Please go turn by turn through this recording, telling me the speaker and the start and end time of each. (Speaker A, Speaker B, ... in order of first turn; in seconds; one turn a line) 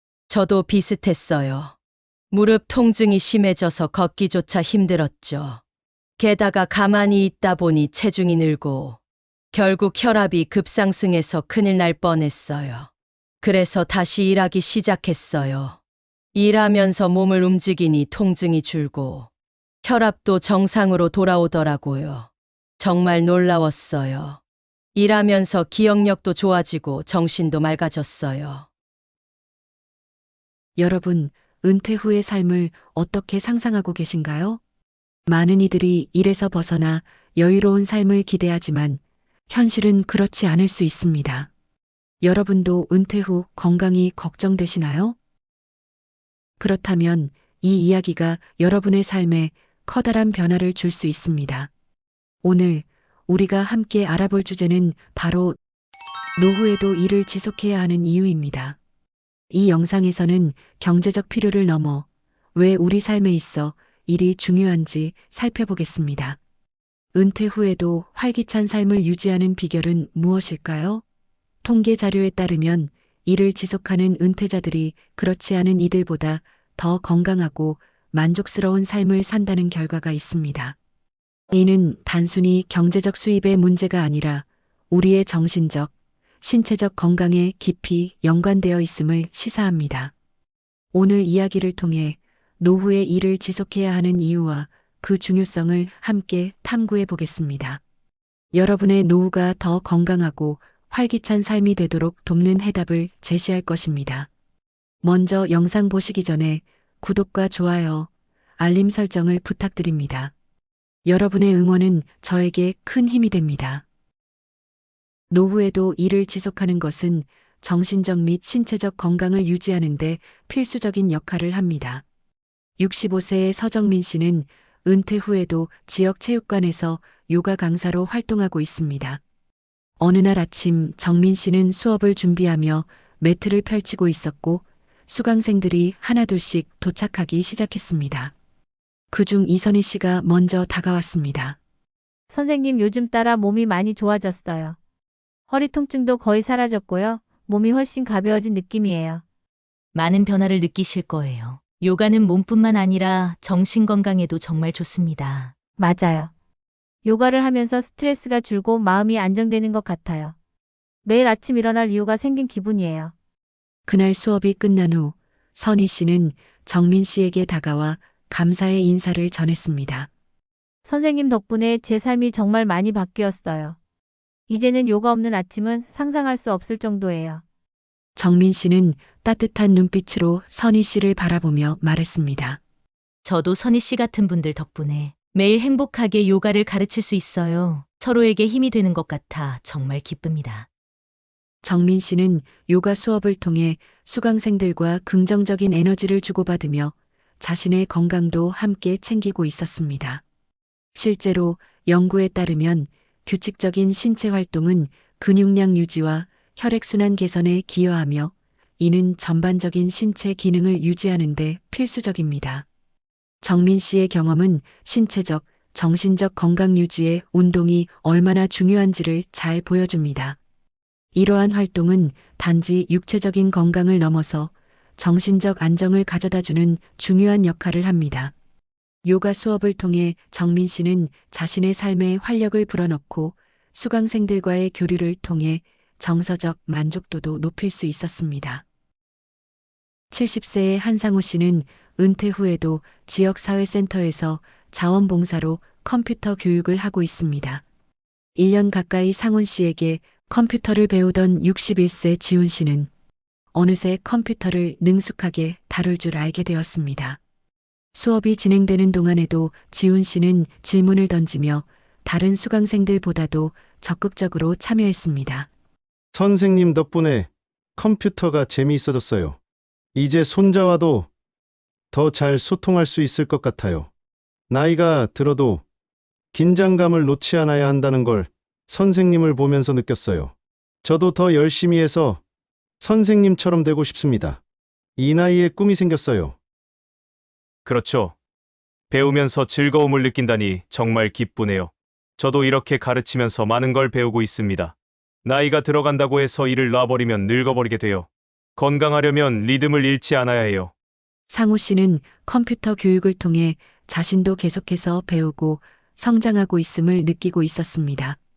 Speaker A: 0.3-1.7
Speaker A: 2.3-5.6
Speaker A: 6.2-9.0
Speaker A: 9.5-12.9
Speaker A: 13.4-15.8
Speaker A: 16.3-19.3
Speaker A: 19.8-24.4
Speaker A: 24.9-28.7
Speaker B: 30.8-34.6
Speaker B: 35.3-41.5
Speaker B: 42.2-45.1
Speaker B: 46.6-51.7
Speaker B: 52.4-55.6
Speaker B: 56.4-58.8
Speaker B: 59.5-66.4
Speaker B: 67.1-71.0
Speaker B: 71.6-80.8
Speaker B: 81.5-90.1
Speaker B: 90.9-97.8
Speaker B: 98.5-104.3
Speaker B: 105.0-110.3
Speaker B: 111.0-113.8
Speaker B: 115.3-122.0
Speaker B: 122.8-129.2
Speaker B: 130.0-138.3
Speaker B: 139.1-141.6
Speaker C: 142.3-144.8
Speaker C: 145.5-149.2
Speaker D: 149.9-155.5
Speaker C: 155.8-156.3
Speaker C: 157.0-160.3
Speaker C: 161.0-163.1
Speaker B: 163.9-170.1
Speaker C: 170.8-173.8
Speaker C: 174.5-177.4
Speaker B: 178.2-182.6
Speaker D: 183.2-190.7
Speaker B: 191.6-200.2
Speaker B: 200.9-212.7
Speaker B: 213.4-220.4
Speaker B: 221.1-228.3
Speaker B: 229.0-238.6
Speaker B: 240.1-247.6
Speaker B: 248.3-252.9
Speaker B: 253.5-257.2
Speaker B: 257.9-265.5
Speaker E: 266.1-269.4
Speaker E: 269.9-271.1
Speaker E: 271.9-273.9
Speaker E: 274.5-275.6
Speaker E: 276.3-282.2
Speaker E: 282.8-284.4
Speaker E: 285.0-286.4
Speaker F: 287.6-288.1
Speaker F: 288.9-300.7
Speaker B: 301.3-308.2